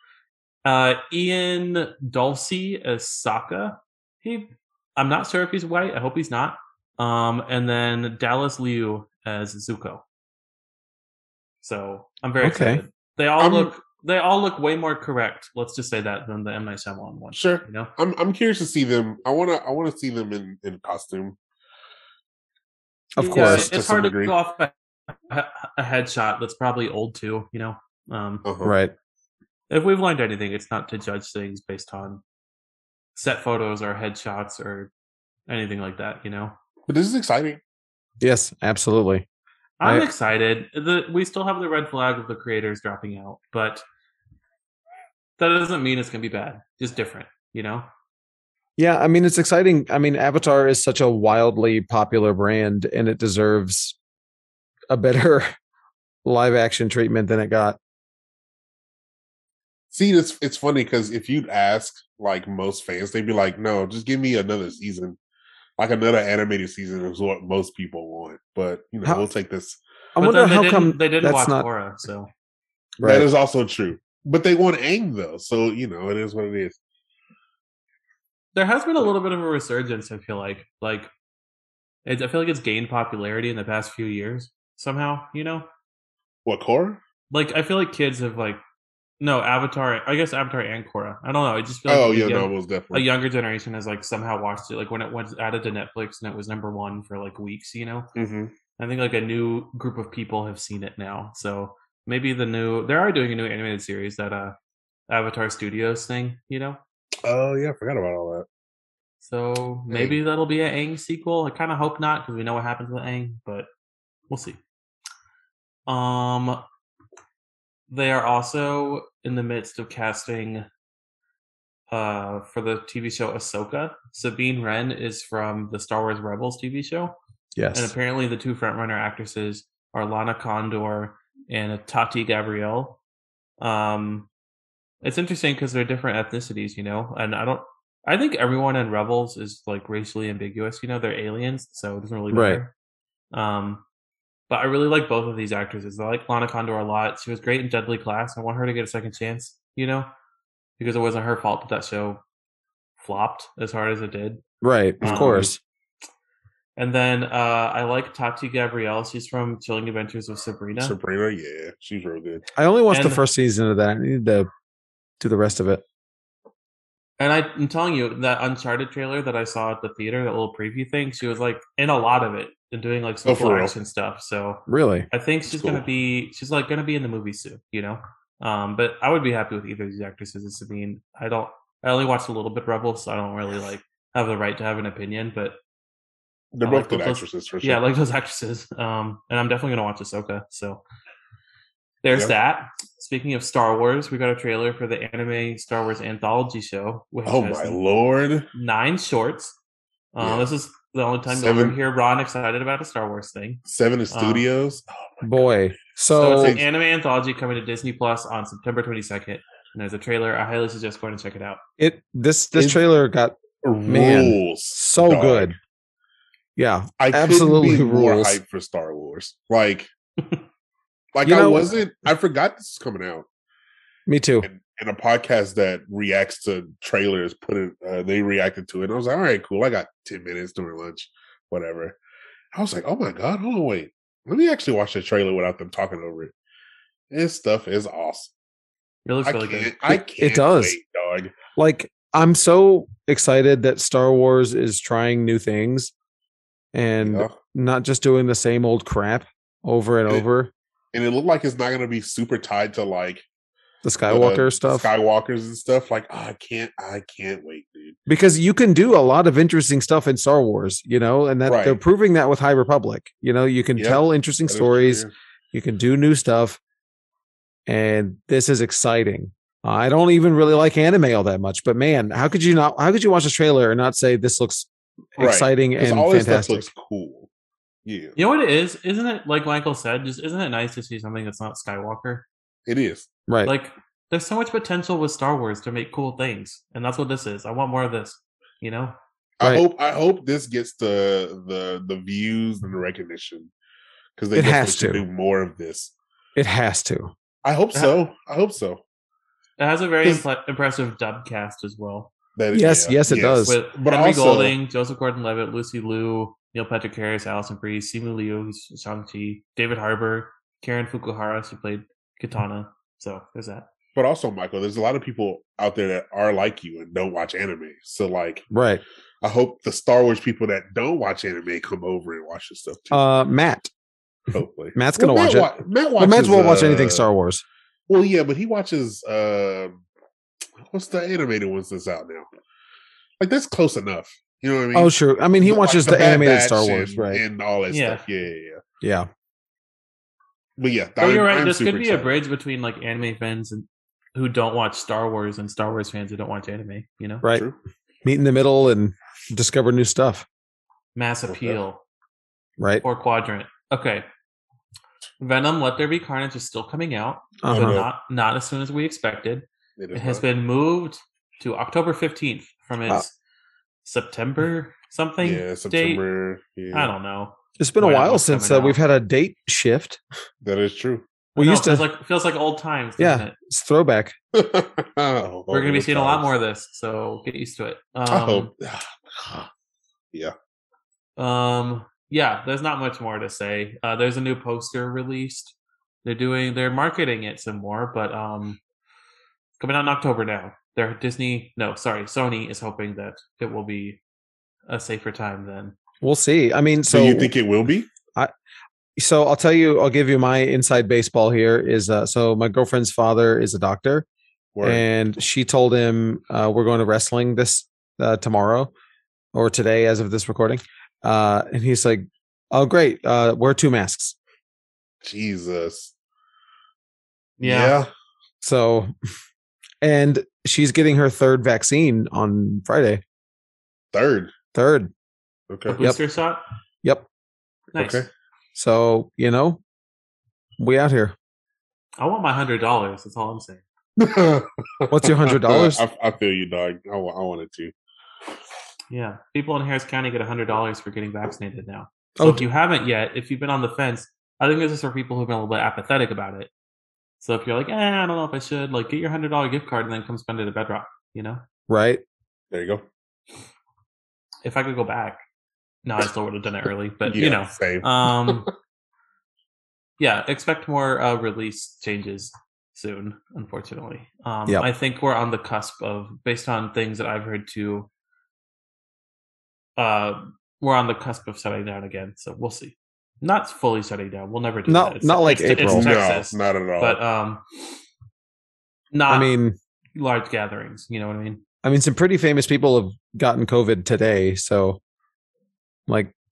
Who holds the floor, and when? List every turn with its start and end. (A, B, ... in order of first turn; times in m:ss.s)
0:00.6-0:10.0 A
0:11.6-0:17.9 A
0:12.4-0:12.8 B
0:13.4-0:13.7 C
0:17.3-0:21.4 C
0:23.1-0:23.7 B
0:23.2-0:28.4 A
0:23.2-0:24.3 C
0:28.4-0:28.8 C
0:28.6-0:28.9 B
0:29.7-0:32.2 A
0:33.1-0:34.9 A
0:35.5-0:36.6 A
0:36.9-0:37.6 C
0:38.2-0:39.2 B
0:39.8-0:43.8 A
0:45.4-0:47.9 A
0:48.8-0:54.0 B
0:54.9-0:55.5 B
0:56.2-0:57.8 B
0:59.9-1:05.2 C
1:05.8-1:09.8 C
1:10.2-1:11.6 B
1:10.2-1:12.3 A
1:13.0-1:13.3 B
1:13.0-1:16.8 C
1:18.5-1:21.1 A
1:22.0-1:25.7 A
1:26.4-1:27.0 C
1:27.3-1:28.6 A
1:29.2-1:38.1 A
1:31.9-1:33.1 C
1:38.2-1:38.5 C
1:38.8-1:44.5 A
1:45.1-1:46.8 A
1:47.2-1:48.4 C
1:49.2-1:53.7 A
1:49.9-1:50.2 C
1:54.3-1:54.6 A
1:55.9-1:56.6 A
1:57.9-2:00.6 A
2:01.9-2:07.2 A
2:07.6-2:07.9 B
2:07.7-2:13.0 A
2:13.6-2:14.3 A
2:15.0-2:22.7 A
2:22.3-2:22.6 B
2:23.3-2:23.8 A
2:24.5-2:30.1 A
2:30.8-2:32.2 A
2:33.0-2:34.4 A
2:34.6-2:35.6 B
2:35.0-2:35.5 A
2:35.0-2:35.5 C
2:36.8-2:40.9 A
2:40.8-2:42.4 C
2:42.6-2:44.5 B
2:42.9-2:43.2 A
2:45.2-2:45.8 B
2:47.2-3:05.6 A
2:53.2-2:53.7 C
2:54.7-2:55.1 B
2:55.5-2:55.8 C
3:06.5-3:07.8 C
3:06.6-3:10.8 A
3:12.0-3:17.8 A
3:17.2-3:18.5 C
3:18.5-3:19.6 A
3:20.1-3:24.4 A
3:20.2-3:20.5 C
3:21.3-3:21.8 C
3:23.6-3:25.5 C
3:25.2-3:26.6 B
3:26.1-3:31.6 A
3:26.2-3:26.6 C
3:31.8-3:35.6 B
3:33.6-3:35.6 C
3:36.6-3:38.4 B
3:37.0-3:39.9 C
3:41.1-3:43.3 C
3:41.2-3:41.7 B
3:44.1-3:44.5 B
3:44.4-3:52.0 C
3:52.5-3:56.3 C
3:57.1-3:58.3 C
3:59.0-3:59.8 A
3:59.2-4:01.4 C
3:59.9-4:00.8 B
4:01.6-4:05.9 B
4:06.7-4:10.5 B
4:07.0-4:07.3 C
4:10.9-4:13.2 C
4:13.8-4:14.9 B
4:14.1-4:18.0 C
4:18.1-4:26.6 B
4:21.5-4:21.8 C
4:23.8-4:25.1 C
4:27.7-4:36.7 B
4:35.2-4:37.3 C
4:37.8-4:38.2 C
4:38.2-4:42.2 A
4:42.6-4:43.1 C
4:43.3-4:43.5 B
4:43.4-4:49.0 A
4:49.4-4:53.5 C
4:54.2-4:55.9 C
4:54.3-4:55.0 B
4:56.4-4:57.1 B
4:57.4-4:58.8 C
4:59.6-5:02.1 A
5:02.4-5:04.5 C
5:02.5-5:03.6 B
5:03.4-5:13.7 A
5:13.9-5:18.4 C
5:18.5-5:18.8 B
5:19.2-5:23.0 C
5:22.9-5:23.7 B
5:24.3-5:27.1 C
5:24.7-5:27.4 B
5:27.9-5:29.8 C
5:30.7-5:32.3 C
5:33.2-5:38.6 C
5:34.7-5:37.2 B
5:37.7-5:38.0 A
5:38.8-5:39.1 B
5:40.6-5:42.1 C
5:41.0-5:47.2 A
5:48.0-5:50.2 B
5:50.9-5:51.8 A
5:51.3-5:51.6 C
5:52.6-5:52.8 B
5:52.8-5:54.0 A
5:55.2-6:03.1 A
5:57.4-5:57.8 B
5:57.5-5:57.9 C
5:59.8-6:00.2 C
6:03.8-6:06.0 A
6:05.2-6:06.9 C
6:06.7-6:08.8 A
6:07.6-6:10.0 B
6:10.4-6:11.0 C
6:11.4-6:11.8 B
6:11.4-6:13.3 A
6:13.0-6:14.1 B
6:14.3-6:16.3 C
6:15.5-6:18.5 A
6:18.1-6:19.5 C
6:21.2-6:28.6 A
6:29.6-6:34.0 A
6:34.7-6:35.8 A
6:36.0-6:37.3 B
6:36.9-6:37.9 C
6:39.0-6:44.0 B
6:44.6-6:44.8 C
6:44.6-6:48.7 B
6:49.3-6:54.2 B
6:55.0-6:55.9 C
6:57.4-6:57.8 A
6:57.4-6:57.9 C
6:58.4-6:58.9 B
6:59.8-7:03.0 B
7:03.9-7:04.3 C
7:04.5-7:04.9 B
7:05.5-7:05.8 C
7:05.7-7:06.4 A
7:07.7-7:08.0 A
7:07.8-7:08.1 C
7:08.5-7:09.6 B
7:10.6-7:11.1 B
7:12.0-7:13.6 A
7:14.0-7:17.7 C
7:14.9-7:15.8 B
7:18.9-7:26.5 A
7:22.2-7:22.4 B
7:27.2-7:31.4 A
7:31.7-7:32.0 B
7:32.5-7:32.8 C
7:34.4-7:35.2 A
7:35.8-7:38.5 A
7:37.1-7:38.4 C
7:40.0-7:47.9 A
7:49.8-7:57.4 A
7:54.7-7:55.9 B
7:55.6-7:57.0 C
7:58.9-7:59.4 A
7:59.1-7:59.6 B
8:00.0-8:01.4 A
8:01.6-8:04.8 B
8:05.9-8:06.1 B